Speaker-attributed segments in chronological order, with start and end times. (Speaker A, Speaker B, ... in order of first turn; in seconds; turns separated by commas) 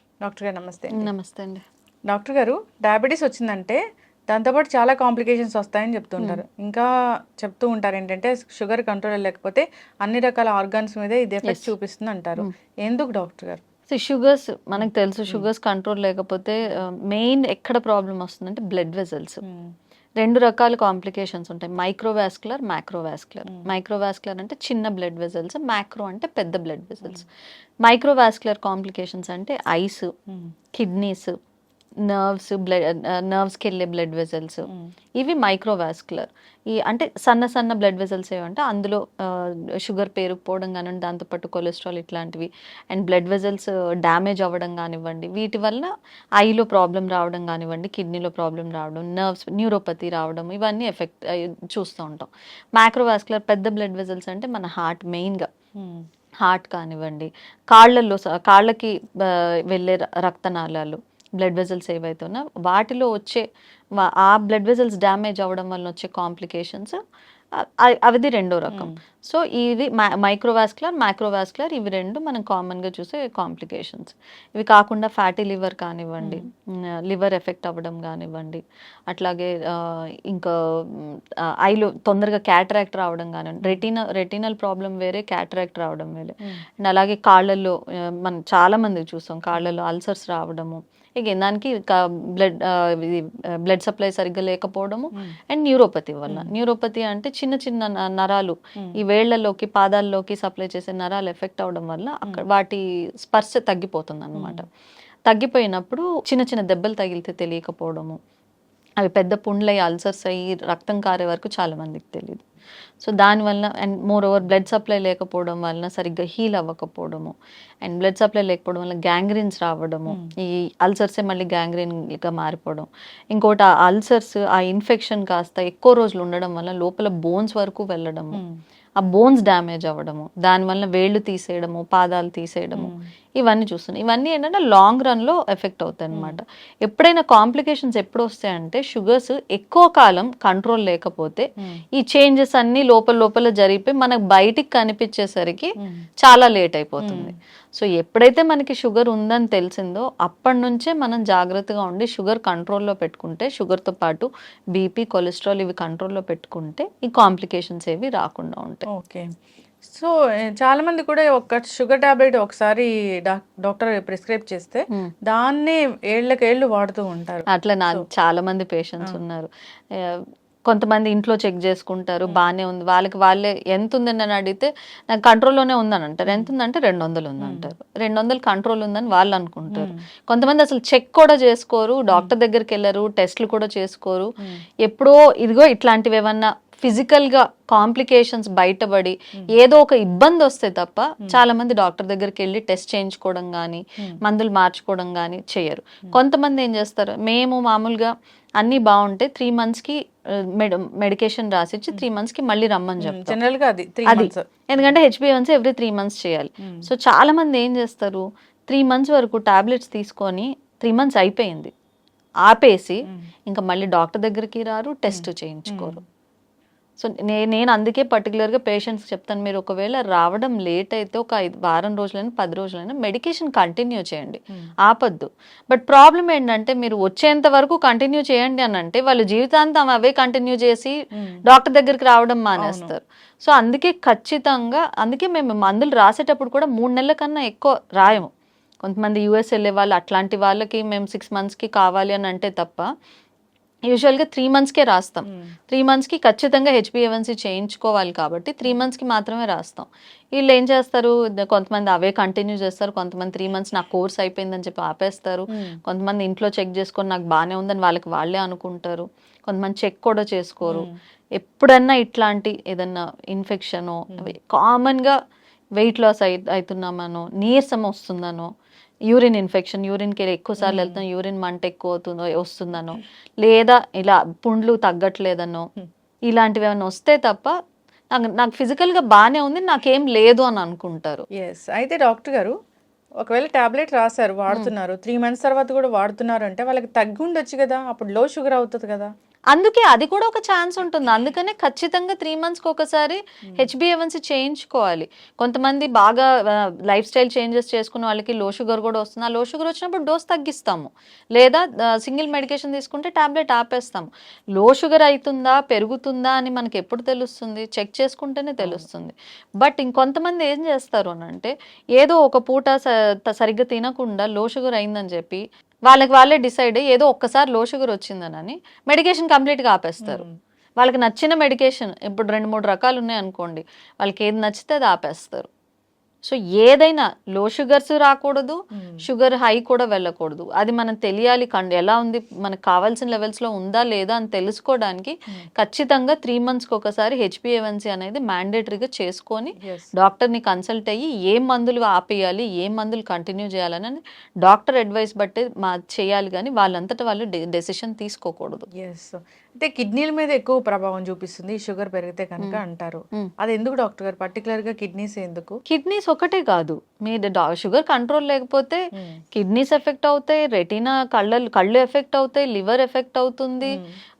Speaker A: 0.2-1.0, Speaker B: 0.9-1.6, Speaker A: 2.1-6.8, Speaker A: 7.4-13.6, Speaker B: 11.4-11.7, Speaker B: 13.9-19.4, Speaker A: 14.8-15.5, Speaker A: 19.4-19.7, Speaker B: 20.2-27.2, Speaker B: 27.8-30.1, Speaker A: 30.3-30.5, Speaker B: 30.7-31.3, Speaker B: 32.0-34.7, Speaker B: 35.2-55.5, Speaker A: 55.8-56.0, Speaker B: 56.4-63.4, Speaker B: 64.0-67.0, Speaker B: 67.5-104.7, Speaker A: 68.7-69.0, Speaker A: 104.3-104.6, Speaker B: 105.3-108.2, Speaker B: 109.0-112.4, Speaker B: 113.0-128.4, Speaker B: 129.0-145.7, Speaker A: 132.8-133.0, Speaker A: 136.1-136.4, Speaker B: 146.2-158.8, Speaker A: 147.0-147.3, Speaker A: 158.9-159.3, Speaker A: 159.8-168.0, Speaker B: 167.5-184.3, Speaker A: 177.4-177.7, Speaker A: 179.7-180.0, Speaker B: 184.8-199.9, Speaker B: 200.5-203.4, Speaker A: 203.0-204.9, Speaker B: 204.1-211.7, Speaker B: 212.4-216.0, Speaker A: 215.1-216.0, Speaker B: 217.0-230.9, Speaker A: 231.2-231.4, Speaker B: 231.5-238.3, Speaker A: 232.6-232.9, Speaker B: 238.8-242.9, Speaker B: 243.9-265.1, Speaker A: 260.6-260.9, Speaker B: 265.8-268.5, Speaker B: 269.1-275.7, Speaker A: 270.6-271.0, Speaker B: 276.3-277.5, Speaker B: 278.1-281.2, Speaker A: 281.4-282.5, Speaker A: 283.2-289.1, Speaker B: 289.5-320.2, Speaker A: 308.6-308.9, Speaker A: 320.0-320.4, Speaker B: 320.8-325.5, Speaker B: 326.2-348.6, Speaker A: 328.7-329.0, Speaker A: 339.6-339.9, Speaker A: 348.8-355.6, Speaker B: 355.7-363.8, Speaker A: 363.6-363.9